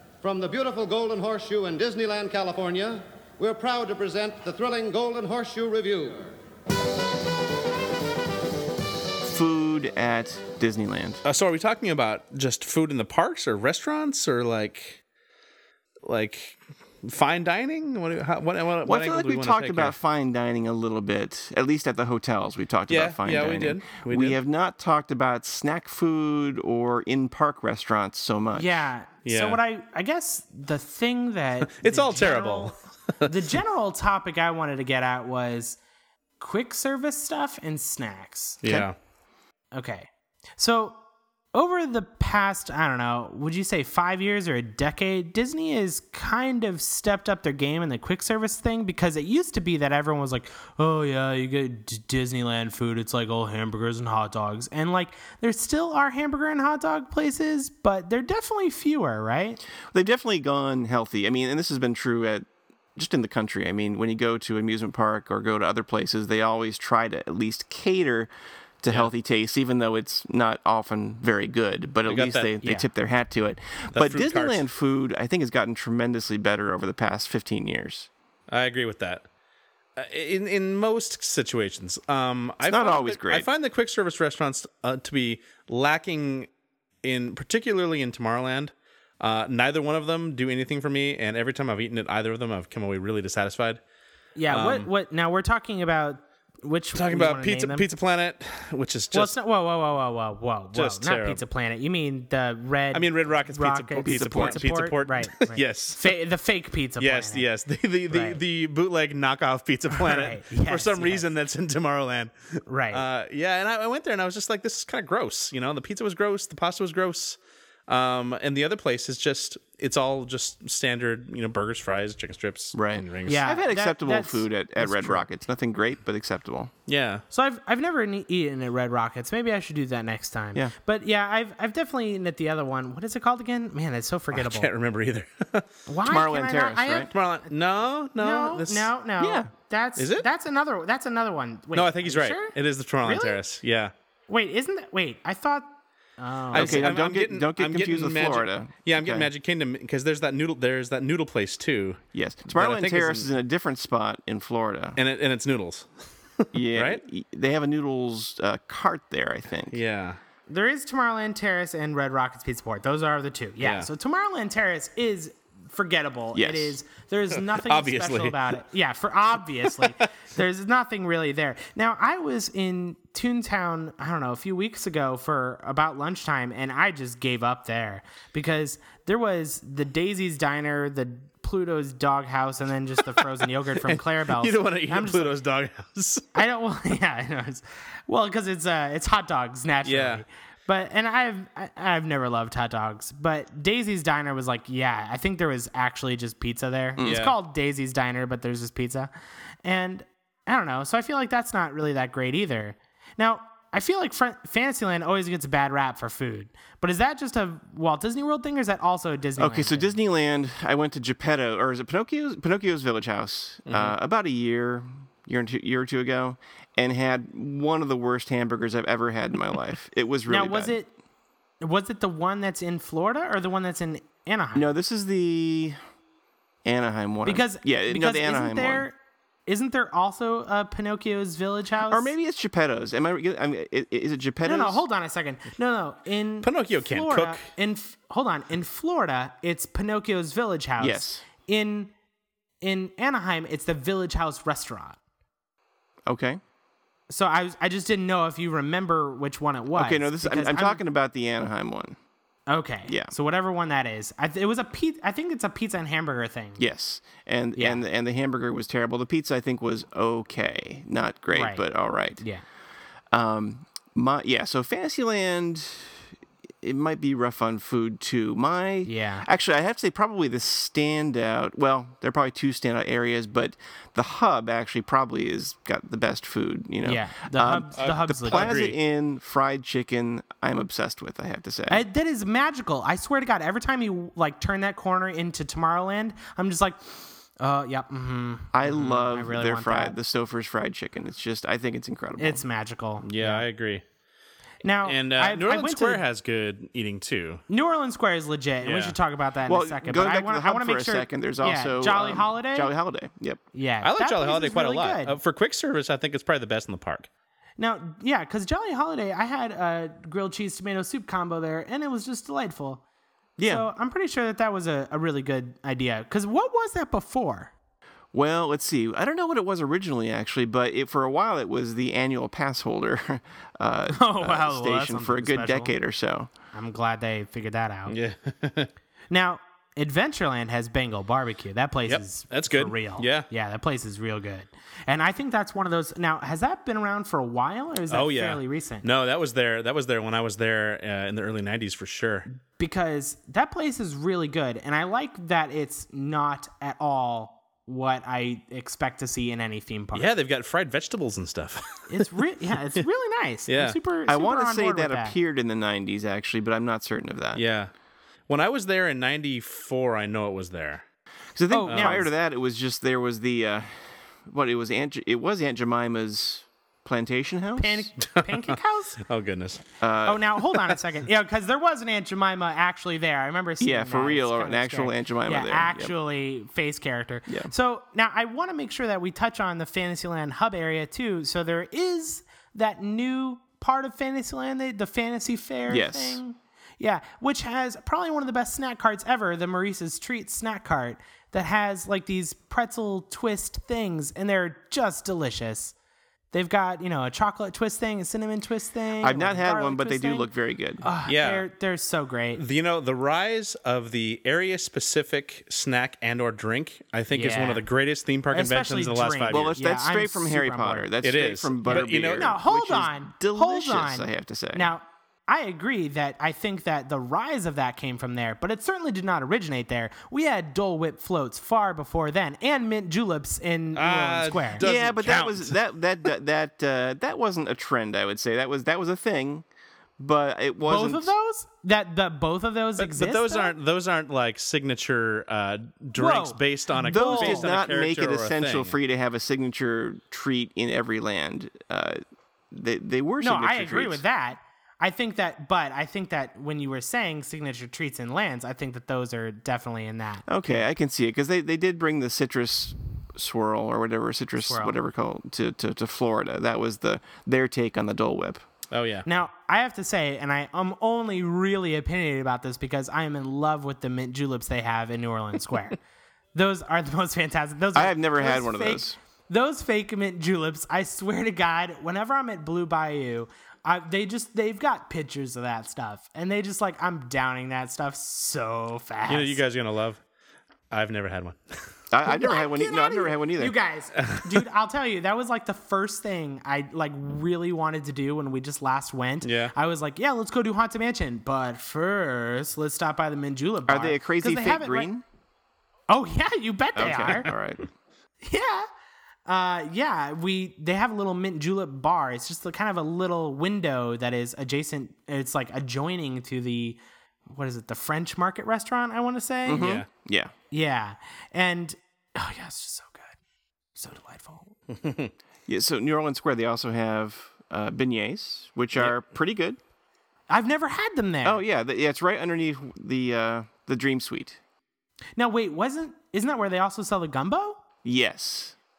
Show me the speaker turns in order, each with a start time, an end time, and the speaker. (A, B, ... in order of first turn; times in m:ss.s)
0:00.2-0:06.3 A
0:09.2-0:11.2 B
0:11.2-0:15.0 C
0:16.0-0:19.9 C
0:18.8-0:28.8 B
0:22.9-0:24.4 C
0:28.5-0:32.7 D
0:29.2-0:29.6 C
0:31.6-0:33.3 C
0:33.2-0:35.8 D
0:36.4-0:38.6 D
0:38.6-0:39.0 C
0:39.7-0:41.0 D
0:41.5-0:59.6 D
0:59.9-1:08.3 B
1:08.8-1:18.1 B
1:12.0-1:12.6 C
1:13.9-1:14.6 C
1:18.5-1:19.2 C
1:20.0-1:26.5 C
1:22.6-1:23.5 B
1:27.0-1:33.8 C
1:34.4-1:37.8 D
1:34.5-1:34.9 C
1:36.9-1:39.3 C
1:39.1-1:47.4 D
1:40.7-1:41.4 C
1:42.9-1:46.1 C
1:44.0-1:44.7 B
1:47.0-2:03.4 C
1:48.1-1:48.4 D
1:49.9-1:51.2 D
1:52.7-1:53.0 D
2:02.7-2:06.7 B
2:03.2-2:05.2 D
2:06.9-2:07.2 C
2:07.3-2:14.7 D
2:14.3-2:15.7 C
2:15.9-2:17.5 D
2:16.0-2:17.1 B
2:17.1-2:18.9 C
2:18.2-2:23.4 D
2:19.2-2:19.5 B
2:20.0-2:20.2 C
2:21.7-2:23.9 C
2:24.3-2:26.9 D
2:26.5-2:33.3 C
2:26.5-2:29.3 B
2:32.1-2:35.0 B
2:35.0-2:35.9 C
2:36.4-2:37.0 C
2:36.5-2:39.8 B
2:39.7-2:40.2 C
2:40.5-3:05.3 D
2:43.6-2:43.9 C
2:46.3-2:46.8 B
2:47.3-2:48.5 C
2:49.6-2:50.0 C
3:03.8-3:06.4 C
3:06.3-3:19.1 D
3:09.8-3:10.2 C
3:17.0-3:17.2 B
3:17.0-3:17.4 C
3:19.6-3:29.9 D
3:29.4-3:40.8 B
3:33.7-3:33.9 C
3:40.3-3:40.9 D
3:41.6-3:44.7 D
3:44.5-3:45.8 B
3:46.6-3:48.8 B
3:47.2-3:49.0 D
3:49.5-3:52.1 D
3:51.9-3:54.8 B
3:54.4-4:01.9 D
3:56.4-3:57.4 C
4:00.8-4:01.2 B
4:02.6-4:05.0 D
4:06.0-4:06.4 B
4:07.1-4:10.8 D
4:09.7-4:12.0 B
4:12.5-4:16.6 D
4:12.9-4:13.1 B
4:16.6-4:22.2 B
4:17.6-4:17.8 D
4:21.3-4:21.6 D
4:22.2-4:22.4 D
4:23.1-4:26.1 B
4:26.6-4:41.8 B
4:28.8-4:29.2 D
4:36.8-4:38.6 D
4:37.8-4:38.8 C
4:41.7-4:50.0 D
4:48.5-4:52.4 B
4:52.2-4:53.4 D
4:53.0-4:53.8 C
4:54.6-4:56.0 D
4:54.8-4:57.4 C
4:57.5-5:02.7 D
4:58.6-4:59.0 C
4:59.5-5:03.4 B
5:03.5-5:05.2 D
5:03.8-5:07.1 C
5:07.6-5:12.8 D
5:13.4-5:17.5 D
5:13.4-5:13.6 B
5:18.1-5:26.3 B
5:23.9-5:25.7 D
5:26.5-5:27.9 D
5:27.9-5:28.7 C
5:29.1-5:38.8 D
5:31.9-5:33.3 C
5:37.9-5:42.2 C
5:42.6-5:50.1 D
5:49.9-5:52.2 C
5:51.9-5:55.1 D
5:53.5-5:53.8 C
5:54.1-5:57.4 B
5:57.3-5:57.7 C
5:58.3-6:00.8 C
6:01.3-6:07.9 B
6:01.5-6:02.1 D
6:01.6-6:02.0 C
6:07.6-6:09.0 D
6:08.0-6:09.6 C
6:09.8-6:10.2 B
6:10.0-6:35.7 D
6:10.5-6:10.8 C
6:13.6-6:15.9 B
6:25.7-6:26.2 B
6:36.3-6:40.3 D
6:39.0-6:40.8 B
6:40.8-6:42.4 D
6:41.1-6:41.4 C
6:42.4-6:49.5 C
6:47.1-6:47.6 D
6:48.3-6:50.8 D
6:49.3-6:54.7 B
6:51.0-6:52.4 C
6:51.6-7:04.6 D
7:03.8-7:05.6 C
7:04.6-7:09.4 B
7:10.0-7:11.1 B
7:10.6-7:13.6 D
7:12.8-7:18.7 C
7:16.0-7:17.5 D
7:16.8-7:22.0 B
7:22.5-7:24.0 B
7:23.2-7:30.6 D
7:30.3-7:38.4 B
7:34.4-7:34.8 D
7:38.7-7:39.0 C
7:39.0-7:45.8 D
7:46.3-7:59.4 D
7:47.7-7:49.0 B
7:59.1-8:00.0 C
8:00.7-8:01.6 C
8:01.9-8:03.5 B
8:02.0-8:14.9 D
8:04.0-8:04.2 C
8:09.2-8:09.5 C
8:13.7-8:15.0 B
8:15.9-8:17.3 D
8:16.7-8:17.6 B
8:18.2-8:18.7 D
8:19.3-8:29.7 D
8:29.4-8:30.3 B
8:29.6-8:29.9 C
8:30.5-8:33.1 D
8:33.8-8:34.6 D
8:34.7-8:35.1 C
8:35.5-8:39.6 B
8:40.3-8:41.4 D
8:41.2-8:44.4 B
8:45.2-8:47.6 D
8:47.8-8:48.6 B